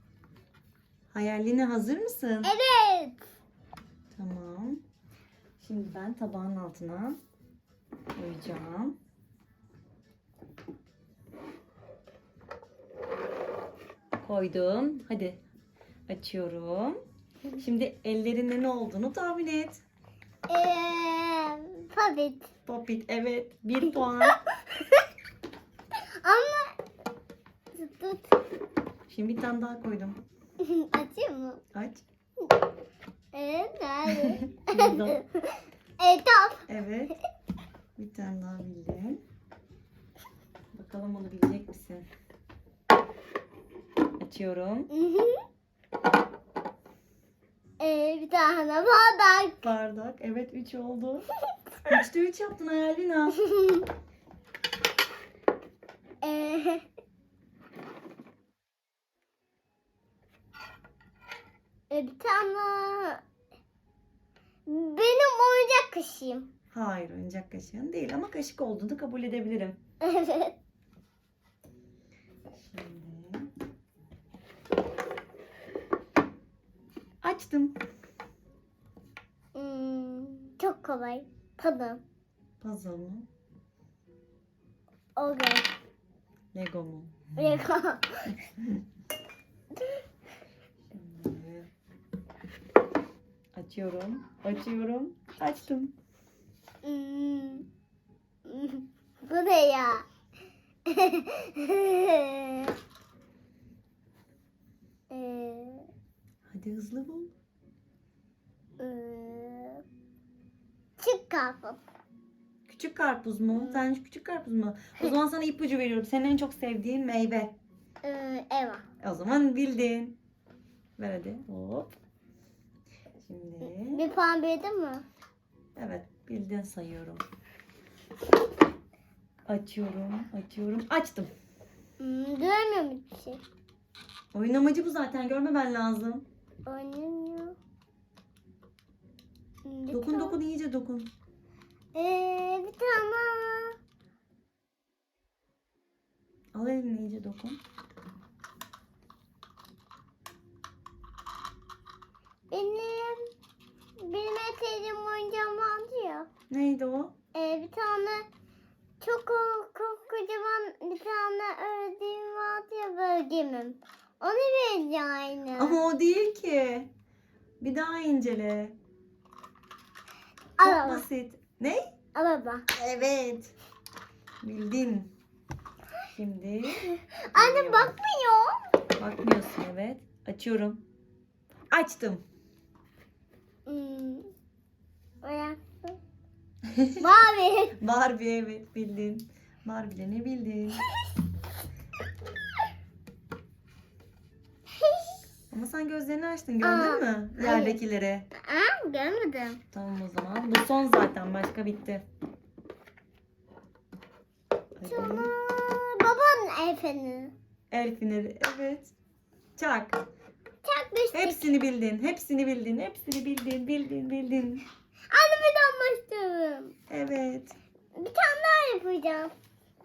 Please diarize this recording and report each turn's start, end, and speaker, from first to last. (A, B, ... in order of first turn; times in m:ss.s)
0:01.1-0:02.5 A
0:02.4-0:03.2 B
0:04.1-0:04.8 A
0:05.6-0:07.2 A
0:08.2-0:09.0 A
0:14.2-0:15.4 A
0:16.1-0:17.0 A
0:17.6-0:19.8 A
0:20.5-0:22.5 B
0:22.7-0:24.4 A
0:24.2-0:25.0 B
0:26.0-0:26.8 B
0:27.7-0:28.4 B
0:29.1-0:30.2 A
0:30.6-0:31.6 B
0:31.7-0:32.0 A
0:33.3-0:36.7 B
0:34.5-0:35.2 A
0:36.7-0:37.1 A
0:38.0-0:39.2 A
0:40.7-0:42.1 A
0:44.2-0:44.9 A
0:44.9-0:45.4 B
0:47.8-0:49.7 B
0:49.6-0:51.3 A
0:51.9-0:53.4 A
0:53.3-0:53.9 B
0:56.2-0:56.9 B
1:01.9-1:03.2 B
1:04.7-1:06.5 B
1:06.7-1:09.8 A
1:10.0-1:10.6 B
1:12.5-1:13.5 A
1:17.2-1:17.8 A
1:19.6-1:22.0 B
1:22.6-1:23.3 A
1:25.2-1:25.7 B
1:26.5-1:27.4 A
1:27.4-1:28.3 B
1:28.4-1:28.8 A
1:30.9-1:31.7 A
1:33.5-1:35.9 A
1:36.8-1:37.7 B
1:38.5-1:40.1 B
1:40.9-1:42.7 B
1:45.1-1:45.9 B
1:46.5-1:47.3 A
1:48.8-1:49.8 B
1:51.0-1:51.8 B
1:52.7-1:57.6 A
1:53.5-1:53.8 B
1:58.0-1:58.9 B
1:59.0-2:00.2 A
2:01.0-2:02.0 A
2:03.2-2:04.0 A
2:03.6-2:05.0 B
2:05.8-2:07.2 A
2:09.5-2:11.3 A
2:12.0-2:13.4 B
2:14.3-2:16.2 A
2:16.7-2:17.6 B
2:19.6-2:20.4 B
2:19.9-2:21.1 A
2:21.9-2:23.8 B
2:26.5-2:27.6 A
2:32.5-2:33.3 B
2:34.0-2:36.3 B
2:36.5-2:37.1 A
2:37.3-2:38.3 B
2:39.0-2:45.8 B
2:45.6-2:46.9 A
2:47.6-2:48.8 A
2:50.6-2:51.0 B
2:50.6-2:51.9 A
2:52.2-2:52.7 B
2:52.7-2:53.5 A
2:54.4-2:55.1 A
2:56.1-2:58.0 A
2:56.9-2:58.7 B
2:59.0-3:00.8 A
3:01.7-3:02.2 A
3:03.7-3:04.3 B
3:05.2-3:06.0 B
3:06.7-3:07.2 A
3:07.0-3:07.8 B
3:07.8-3:10.8 A
3:14.7-3:15.2 B
3:15.5-3:18.3 A
3:16.6-3:17.8 B
3:18.3-3:19.6 B
3:19.7-3:22.0 A
3:24.8-3:25.3 A
3:24.9-3:27.3 B
3:27.7-3:29.0 A
3:29.6-3:30.0 A
3:30.6-3:31.4 B
3:31.1-3:34.6 A
3:35.1-3:36.7 B
3:36.9-3:37.6 A
3:38.0-3:39.3 B